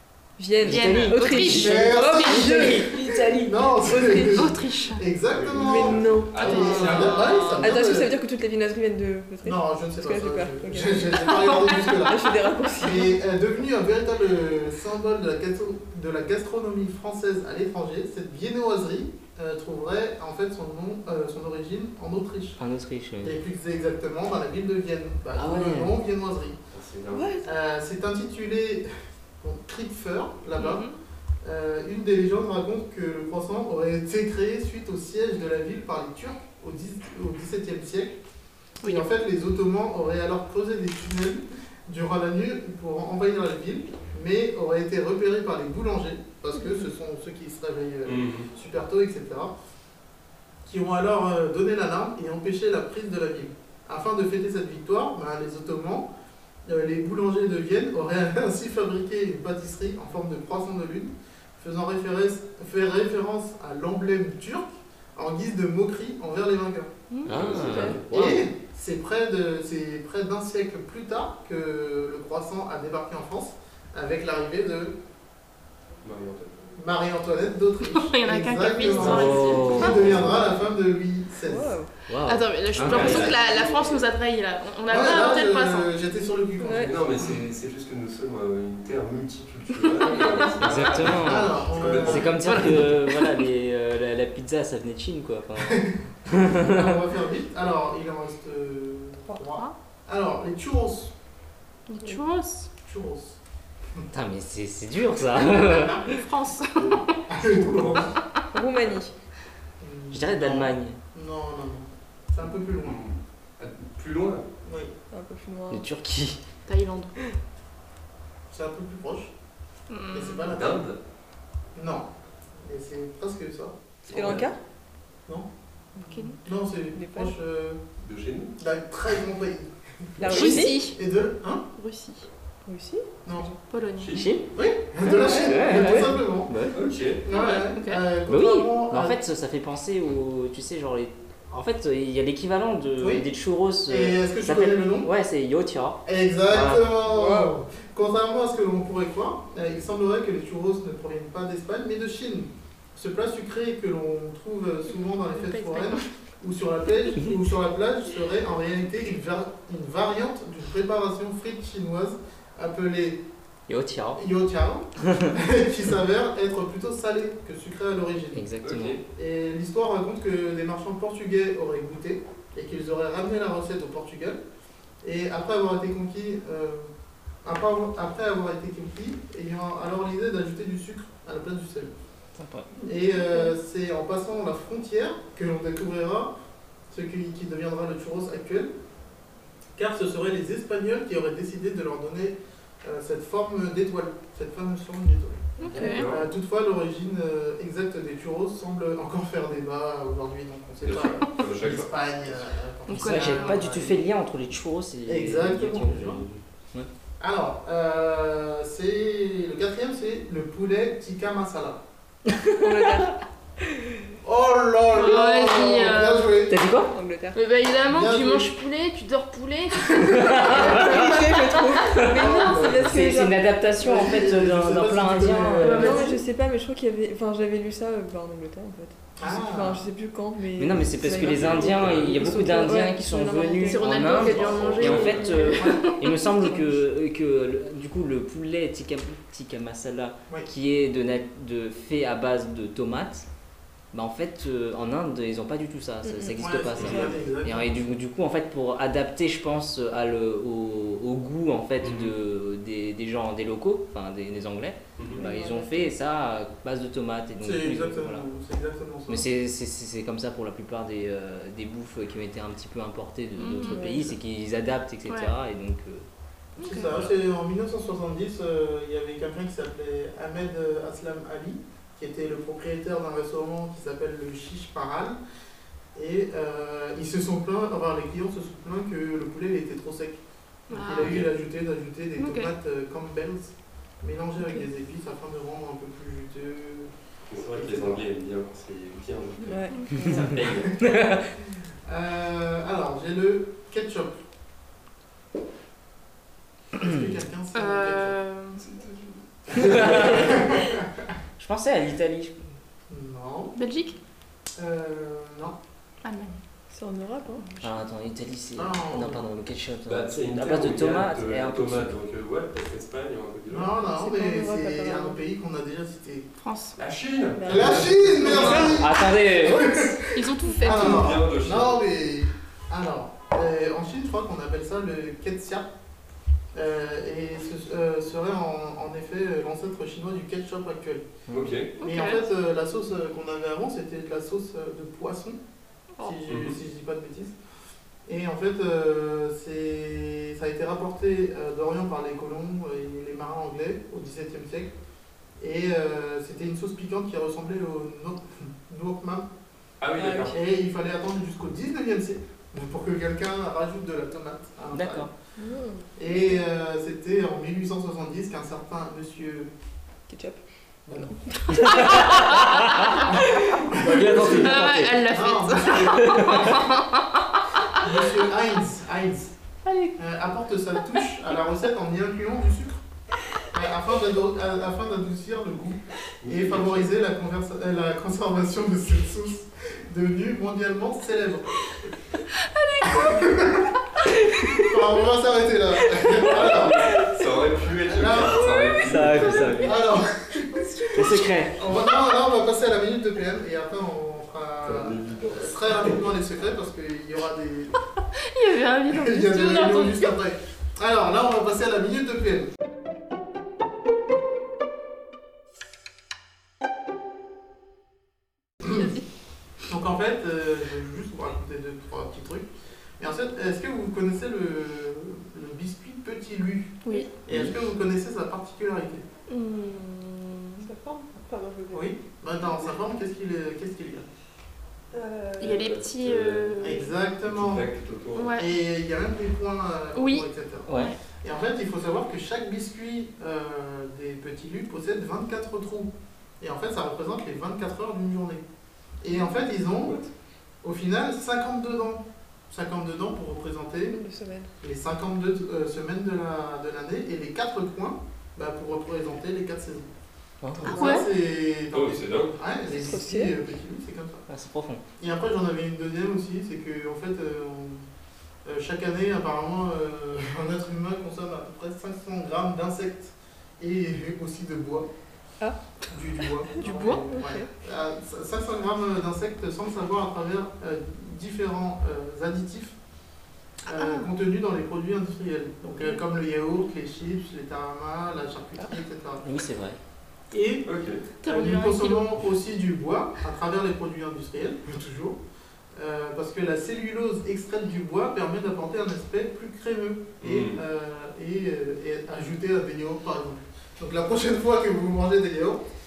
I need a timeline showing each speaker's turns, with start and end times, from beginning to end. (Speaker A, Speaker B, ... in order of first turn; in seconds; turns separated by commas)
Speaker A: 0.4-4.5, Speaker B: 0.6-2.9, Speaker C: 0.6-2.9, Speaker D: 1.5-8.1, Speaker C: 4.2-5.0, Speaker E: 5.3-7.6, Speaker A: 5.5-13.2, Speaker C: 6.5-7.8, Speaker D: 9.4-22.6, Speaker C: 11.3-12.0, Speaker B: 22.6-23.4, Speaker D: 23.2-26.6, Speaker B: 25.4-25.9, Speaker E: 26.7-27.4, Speaker A: 27.1-27.4, Speaker D: 27.4-28.9, Speaker D: 29.4-30.8, Speaker C: 30.6-31.0, Speaker D: 31.4-38.2, Speaker C: 38.8-39.1, Speaker D: 38.8-49.5, Speaker E: 48.0-48.5, Speaker D: 50.6-56.1, Speaker D: 56.6-66.9, Speaker C: 67.1-67.4, Speaker B: 67.2-68.4, Speaker E: 67.2-68.1, Speaker A: 67.6-68.0, Speaker D: 68.1-75.0, Speaker E: 76.0-76.8, Speaker D: 76.8-81.8, Speaker C: 77.8-80.4, Speaker E: 79.0-80.4, Speaker B: 79.0-80.3, Speaker A: 81.4-81.9, Speaker B: 82.1-83.3, Speaker C: 82.2-85.9, Speaker E: 82.8-84.0, Speaker D: 82.9-83.7, Speaker D: 84.9-87.4, Speaker A: 86.6-86.9, Speaker E: 86.7-92.8, Speaker C: 90.1-90.5, Speaker B: 90.6-97.0, Speaker D: 91.0-92.4, Speaker C: 92.5-93.2, Speaker D: 95.6-101.1, Speaker C: 99.4-99.7, Speaker C: 101.9-102.7, Speaker D: 102.8-103.4, Speaker B: 104.1-106.2, Speaker C: 105.6-107.1, Speaker E: 106.8-108.1, Speaker D: 107.2-108.1, Speaker A: 108.5-109.1, Speaker D: 109.8-113.0, Speaker B: 110.1-111.0, Speaker E: 112.8-114.5, Speaker D: 114.6-114.9, Speaker A: 115.1-115.8, Speaker B: 115.7-116.4, Speaker C: 116.7-117.1, Speaker D: 118.5-119.3, Speaker C: 119.9-120.5, Speaker D: 120.1-120.9, Speaker E: 120.5-121.0, Speaker D: 121.8-122.1, Speaker D: 122.6-124.3, Speaker E: 124.1-124.5, Speaker A: 124.1-124.6, Speaker A: 126.0-126.4, Speaker C: 126.0-126.4, Speaker D: 126.4-127.8, Speaker A: 126.9-127.3, Speaker E: 128.0-128.6, Speaker D: 128.6-131.6, Speaker A: 130.2-130.9, Speaker C: 130.2-131.0, Speaker C: 131.7-132.3, Speaker A: 132.7-133.5, Speaker D: 133.2-133.5, Speaker C: 133.7-134.2, Speaker E: 134.0-134.4, Speaker B: 134.1-134.5, Speaker D: 134.5-139.2, Speaker B: 135.0-136.8, Speaker A: 135.1-136.2, Speaker E: 136.7-137.2, Speaker C: 137.3-138.0, Speaker B: 138.2-146.9, Speaker D: 143.0-143.3, Speaker D: 143.9-145.1, Speaker D: 146.0-163.2, Speaker A: 147.1-147.6, Speaker C: 155.2-156.1, Speaker B: 163.7-164.2, Speaker D: 164.2-168.5, Speaker B: 168.3-169.0, Speaker E: 168.6-169.0, Speaker D: 169.1-174.4, Speaker D: 175.0-176.9, Speaker D: 177.4-181.9, Speaker B: 182.4-182.7, Speaker D: 182.8-186.3, Speaker D: 186.9-188.7, Speaker D: 189.8-204.0, Speaker C: 195.6-196.1, Speaker E: 195.7-196.2, Speaker E: 200.8-201.9, Speaker C: 202.9-203.7, Speaker B: 202.9-206.9, Speaker D: 205.1-206.2, Speaker D: 207.2-211.8, Speaker B: 212.4-213.0, Speaker A: 212.5-213.2, Speaker D: 214.2-216.6, Speaker C: 214.9-216.3, Speaker B: 216.5-216.9, Speaker A: 216.8-217.4, Speaker C: 217.3-220.8, Speaker D: 217.9-218.5, Speaker D: 219.8-220.8, Speaker B: 220.0-222.2, Speaker A: 220.5-223.4, Speaker D: 222.1-223.0, Speaker B: 222.8-226.1, Speaker D: 223.8-226.1, Speaker C: 225.6-226.2, Speaker A: 225.7-234.5, Speaker D: 229.2-229.8, Speaker B: 230.6-243.3, Speaker E: 231.1-232.5, Speaker C: 233.6-235.9, Speaker D: 234.3-235.1, Speaker E: 234.4-235.3, Speaker A: 235.0-235.8, Speaker D: 235.6-235.9, Speaker B: 243.9-258.2, Speaker A: 246.0-247.1, Speaker D: 246.4-247.8, Speaker E: 246.8-247.1, Speaker E: 251.8-252.1, Speaker E: 255.0-255.2, Speaker A: 255.2-255.8, Speaker D: 257.4-259.2, Speaker B: 259.1-266.1, Speaker C: 263.4-263.8, Speaker A: 263.6-264.1, Speaker C: 265.1-265.3, Speaker C: 266.6-266.9, Speaker D: 266.6-275.2, Speaker D: 275.9-288.0, Speaker C: 280.7-281.2, Speaker E: 281.0-281.3, Speaker C: 282.2-282.5, Speaker E: 287.3-290.8, Speaker A: 289.4-290.3, Speaker D: 290.4-290.7, Speaker B: 290.8-291.3, Speaker D: 291.9-294.2, Speaker D: 296.7-298.2, Speaker C: 297.5-298.9, Speaker D: 299.4-301.1, Speaker B: 299.5-300.4, Speaker B: 301.4-302.4, Speaker D: 302.9-303.6, Speaker C: 303.5-304.0, Speaker D: 304.6-305.6, Speaker C: 306.0-306.4, Speaker A: 306.7-307.4, Speaker C: 307.4-307.7, Speaker B: 307.6-311.9, Speaker D: 308.6-309.3, Speaker E: 309.9-313.8, Speaker D: 313.5-316.3, Speaker A: 313.9-315.2, Speaker C: 316.4-316.8, Speaker E: 316.8-318.8, Speaker A: 317.3-317.8, Speaker D: 317.4-325.7, Speaker C: 318.2-318.8, Speaker B: 318.3-320.0, Speaker C: 320.1-321.2, Speaker E: 320.6-321.8, Speaker D: 326.5-331.1, Speaker E: 331.3-331.7, Speaker C: 331.8-332.2, Speaker D: 331.8-335.4, Speaker D: 336.0-337.3, Speaker E: 336.3-336.5, Speaker D: 338.1-344.7, Speaker D: 345.4-349.3, Speaker E: 349.8-350.3, Speaker A: 349.9-350.4, Speaker D: 350.3-355.1, Speaker B: 354.7-355.1, Speaker A: 355.4-355.9, Speaker D: 356.0-359.5, Speaker A: 360.1-360.4, Speaker D: 360.9-361.1, Speaker A: 360.9-363.6, Speaker B: 361.5-365.0, Speaker D: 363.1-366.7, Speaker C: 364.2-367.9, Speaker B: 365.8-366.6, Speaker D: 367.7-369.3, Speaker C: 369.6-369.9, Speaker D: 369.9-372.8, Speaker D: 373.5-381.9, Speaker E: 376.2-376.9, Speaker C: 382.4-383.3, Speaker D: 382.8-383.7, Speaker D: 384.5-386.8, Speaker E: 386.2-389.7, Speaker D: 387.9-388.4, Speaker B: 388.8-389.8, Speaker D: 389.5-397.8, Speaker C: 390.5-391.7, Speaker B: 390.9-391.6, Speaker E: 394.6-396.0, Speaker C: 398.2-400.1, Speaker D: 398.9-402.5, Speaker D: 409.6-419.1, Speaker C: 416.8-417.1, Speaker C: 419.3-420.7, Speaker A: 420.6-421.9, Speaker D: 421.7-424.1, Speaker A: 424.9-425.5, Speaker C: 425.4-426.9, Speaker E: 425.4-428.4, Speaker D: 426.6-427.7, Speaker C: 428.1-428.5, Speaker D: 428.4-438.4, Speaker C: 429.9-430.9, Speaker B: 430.7-430.9, Speaker D: 439.0-440.0, Speaker D: 440.6-444.0, Speaker A: 443.9-444.5, Speaker D: 444.6-449.9, Speaker B: 450.4-450.8, Speaker D: 450.6-454.2, Speaker C: 450.7-451.1, Speaker E: 451.7-452.3, Speaker A: 452.7-453.3, Speaker B: 454.3-454.8, Speaker D: 455.0-457.9, Speaker D: 458.4-464.9, Speaker D: 465.9-472.7, Speaker A: 466.6-467.5, Speaker C: 466.6-467.2, Speaker D: 473.7-479.2, Speaker C: 473.7-474.1, Speaker B: 479.2-479.8, Speaker D: 480.3-480.7, Speaker E: 480.6-481.0, Speaker C: 481.2-482.2, Speaker D: 481.2-485.2, Speaker D: 485.7-495.6, Speaker E: 490.2-490.6